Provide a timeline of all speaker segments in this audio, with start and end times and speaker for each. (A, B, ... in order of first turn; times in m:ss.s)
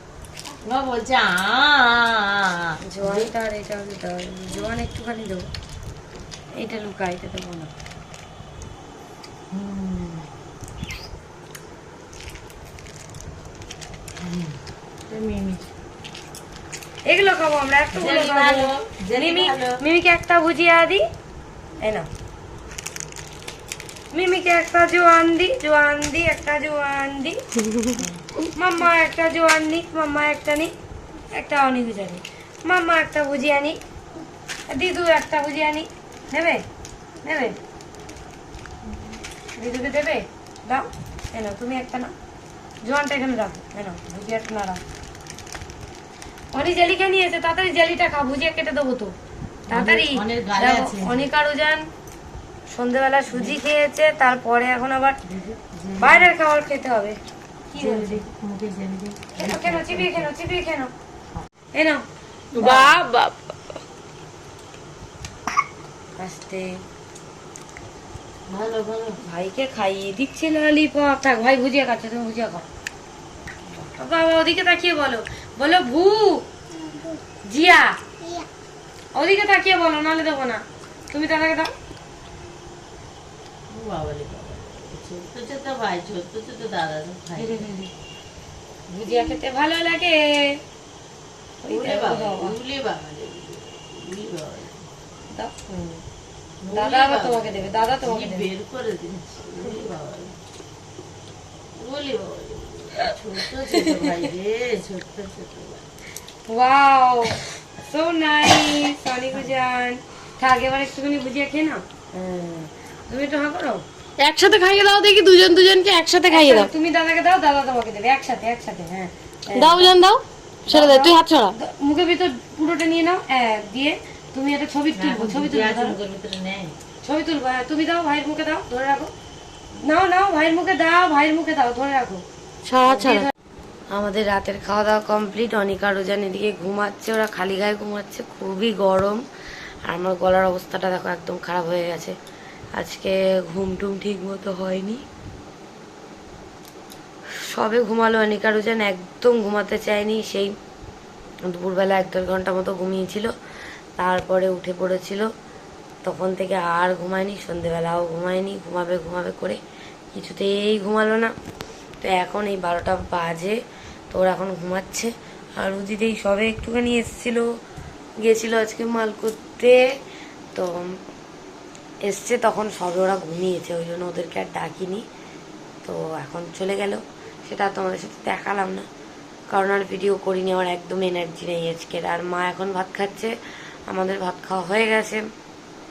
0:00.6-0:03.3 A
0:02.8-0:05.5 B
0:06.6-0:07.7 B
0:09.5-0:10.3 A
0:14.2-0:15.7 A
0:17.0-0:21.0 B
0:17.9-0:19.8 A
0:21.8-0:22.1 B
0:24.1-0:30.7 B
0:27.9-0:28.2 A
0:31.3-0:33.8 B
0:34.7-0:36.6 B
0:37.2-0:37.6 B
0:39.6-0:42.1 B
0:42.8-0:44.8 B
0:46.5-0:49.1 B
0:49.7-0:51.9 B
0:49.7-0:51.3 A
0:52.7-0:55.2 B
0:53.3-0:53.6 A
0:55.3-0:56.3 A
0:56.0-0:57.2 B
0:57.7-0:58.2 B
0:57.7-1:00.3 A
0:59.4-1:00.9 B
1:01.7-1:02.0 B
1:02.5-1:03.3 A
1:02.6-1:03.1 B
1:06.2-1:06.8 B
1:08.5-1:09.2 A
1:09.2-1:12.7 B
1:13.9-1:16.4 B
1:17.4-1:18.0 B
1:19.1-1:21.7 B
1:23.7-1:27.7 A
1:27.4-1:27.9 B
1:28.9-1:30.6 B
1:31.6-1:32.6 B
1:31.7-1:34.8 A
1:35.3-1:36.0 B
1:36.6-1:40.3 A
1:36.7-1:38.5 B
1:41.8-1:45.8 A
1:46.5-1:53.8 B
1:54.2-1:56.7 C
1:56.2-2:00.0 B
1:59.5-2:01.5 C
2:00.6-2:06.0 B
2:04.9-2:06.7 A
2:07.0-2:09.1 B
2:09.8-2:13.3 B
2:13.0-2:13.3 A
2:13.9-2:19.2 B
2:19.8-2:22.2 B
2:22.8-2:25.0 B
2:27.3-2:30.5 B
2:31.4-2:33.3 B
2:34.0-2:35.3 B
2:36.0-2:39.6 B
2:40.1-2:41.3 B
2:42.0-2:47.4 B
2:48.2-2:50.0 B
2:50.5-2:51.0 B
2:52.0-2:55.0 B
2:55.8-2:58.9 B
2:59.5-3:03.4 B
3:03.9-3:05.3 B